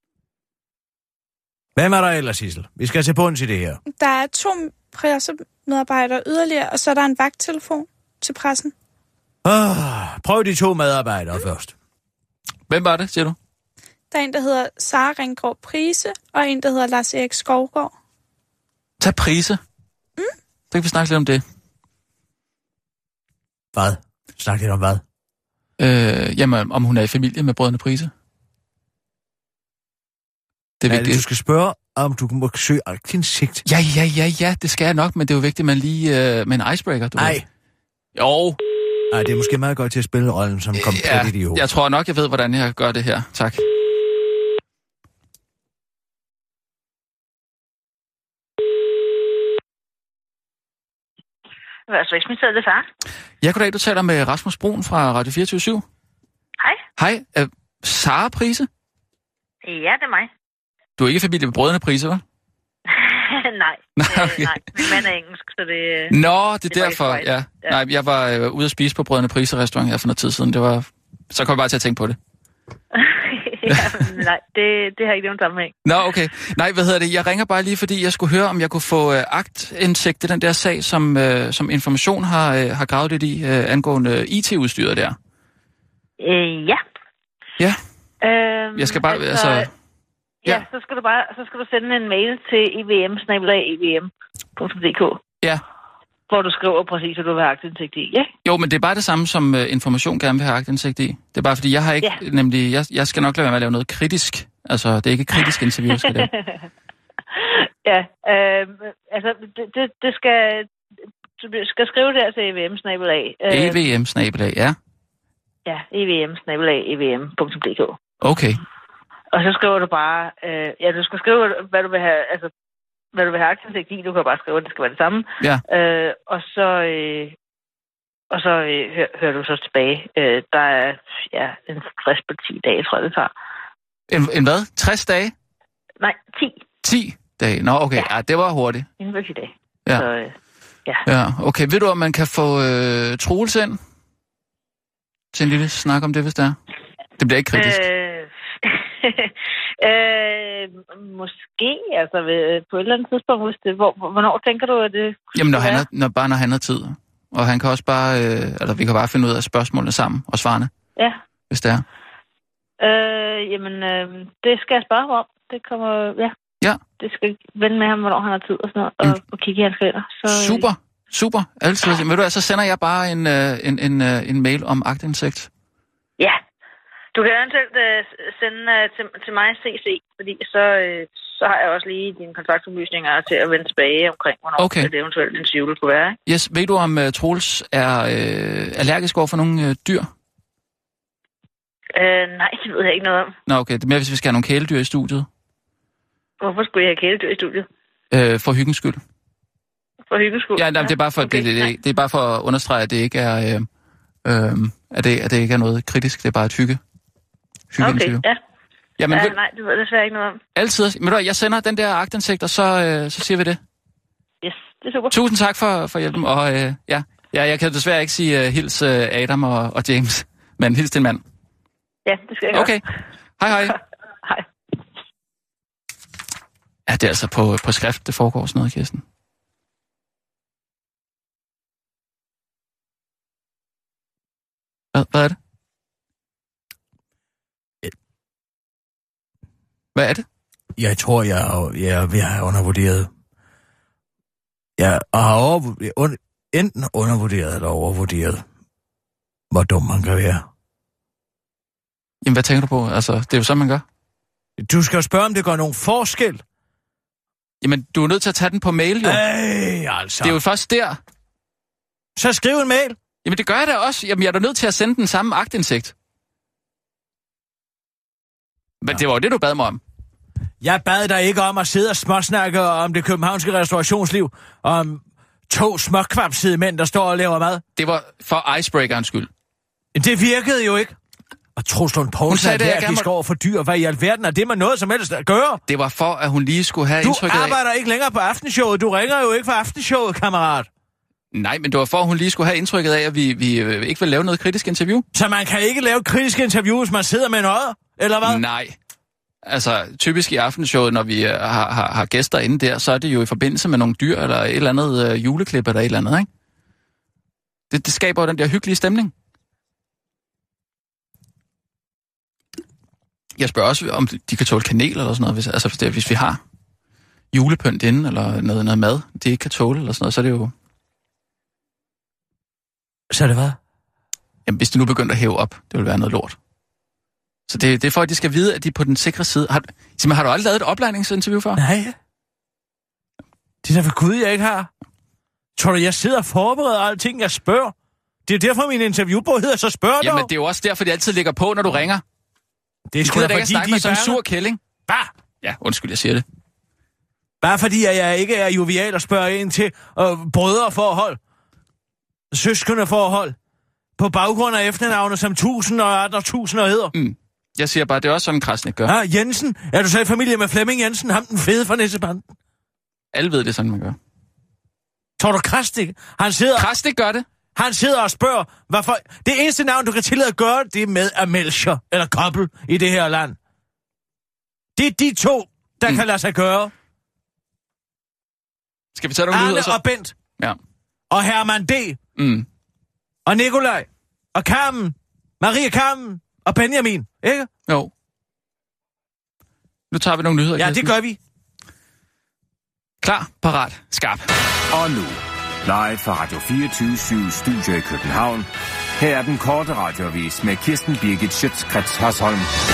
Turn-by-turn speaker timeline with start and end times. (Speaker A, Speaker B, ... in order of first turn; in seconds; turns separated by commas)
Speaker A: 1.8-3.8, Speaker B: 3.9-8.7, Speaker A: 9.4-11.7, Speaker C: 12.7-13.4, Speaker B: 14.1-17.9, Speaker C: 19.0-19.6, Speaker C: 20.7-21.4, Speaker A: 23.7-25.0, Speaker C: 25.8-28.1, Speaker C: 30.8-31.2, Speaker A: 30.9-33.6, Speaker C: 33.6-37.4, Speaker A: 37.2-37.5, Speaker C: 38.2-38.6, Speaker A: 39.1-41.6, Speaker C: 40.8-43.6, Speaker D: 51.9-52.8, Speaker C: 53.4-55.8, Speaker C: 57.0-58.7, Speaker D: 59.6-60.3, Speaker C: 61.0-62.2, Speaker D: 62.9-66.2, Speaker C: 64.0-65.0, Speaker C: 66.1-72.2, Speaker D: 66.7-67.8, Speaker D: 72.9-75.8, Speaker C: 73.7-74.1, Speaker C: 75.8-85.2, Speaker D: 86.2-86.8, Speaker D: 88.2-89.7, Speaker C: 88.8-89.7, Speaker D: 90.5-95.2, Speaker D: 96.3-98.3, Speaker C: 98.5-106.3, Speaker D: 105.4-106.6, Speaker D: 107.3-110.7, Speaker D: 111.4-113.8, Speaker C: 113.5-114.8, Speaker D: 115.7-118.0, Speaker C: 118.2-118.6, Speaker D: 119.3-122.5, Speaker D: 123.1-127.4, Speaker D: 128.3-133.3, Speaker C: 134.1-135.3, Speaker D: 136.0-136.6, Speaker C: 136.8-138.9, Speaker D: 139.0-140.3, Speaker C: 141.1-143.8, Speaker C: 145.3-146.6, Speaker C: 147.2-147.8, Speaker D: 147.5-155.9, Speaker C: 155.3-160.7, Speaker C: 161.5-161.8, Speaker D: 162.8-166.3, Speaker D: 167.0-170.7, Speaker C: 170.3-175.5, Speaker D: 177.1-186.2, Speaker C: 184.6-184.9, Speaker C: 186.3-190.1, Speaker D: 192.0-193.3, Speaker C: 193.5-195.3, Speaker D: 196.4-197.7, Speaker C: 198.1-199.0, Speaker D: 200.1-201.7, Speaker C: 200.6-203.7, Speaker C: 204.2-206.8, Speaker C: 207.7-208.2, Speaker D: 207.8-208.4, Speaker C: 209.0-209.4, Speaker D: 209.1-210.4, Speaker C: 210.6-213.6, Speaker D: 214.4-215.2, Speaker C: 215.1-221.2, Speaker D: 222.1-222.8, Speaker C: 222.5-222.8, Speaker C: 223.4-223.8, Speaker D: 223.6-224.4, Speaker C: 226.9-229.0, Speaker C: 234.9-235.4, Speaker C: 239.9-240.2, Speaker A: 240.8-243.1, Speaker A: 244.8-248.4, Speaker A: 249.5-250.4, Speaker C: 252.2-253.8, Speaker A: 254.6-256.4, Speaker C: 257.6-259.2, Speaker A: 259.0-260.4, Speaker C: 260.2-261.0, Speaker A: 262.2-263.0, Speaker C: 263.2-265.9, Speaker C: 268.8-269.8, Speaker A: 270.6-277.6, Speaker C: 277.8-279.3, Speaker A: 279.9-281.0, Speaker A: 281.6-285.6, Speaker C: 282.3-283.1, Speaker C: 285.7-287.6, Speaker A: 287.0-290.7, Speaker C: 291.3-295.1, Speaker A: 295.1-298.4, Speaker C: 298.2-298.8, Speaker C: 299.4-306.3, Speaker C: 307.7-309.1, Speaker C: 313.4-316.4, Speaker C: 317.3-320.5, Speaker A: 323.1-323.6, Speaker C: 324.5-326.4, Speaker C: 327.5-331.6, Speaker A: 331.6-332.0, Speaker A: 333.6-334.7, Speaker A: 335.6-337.7, Speaker A: 338.3-340.3, Speaker C: 340.0-342.0, Speaker A: 342.9-344.2, Speaker C: 343.0-344.6, Speaker A: 344.9-345.1, Speaker C: 345.4-346.2, Speaker A: 347.4-351.2, Speaker A: 352.3-353.4, Speaker A: 354.0-356.9, Speaker C: 356.9-358.9, Speaker A: 358.9-362.3, Speaker C: 363.1-364.0, Speaker A: 365.2-366.7, Speaker C: 366.6-367.2, Speaker A: 367.6-373.4, Speaker A: 374.8-376.7, Speaker C: 379.0-379.8, Speaker A: 379.3-380.1, Speaker A: 381.1-382.0, Speaker C: 382.2-382.5, Speaker A: 383.3-387.5, Speaker C: 389.9-390.9, Speaker A: 390.6-391.2, Speaker C: 393.0-394.3, Speaker E: 394.7-402.5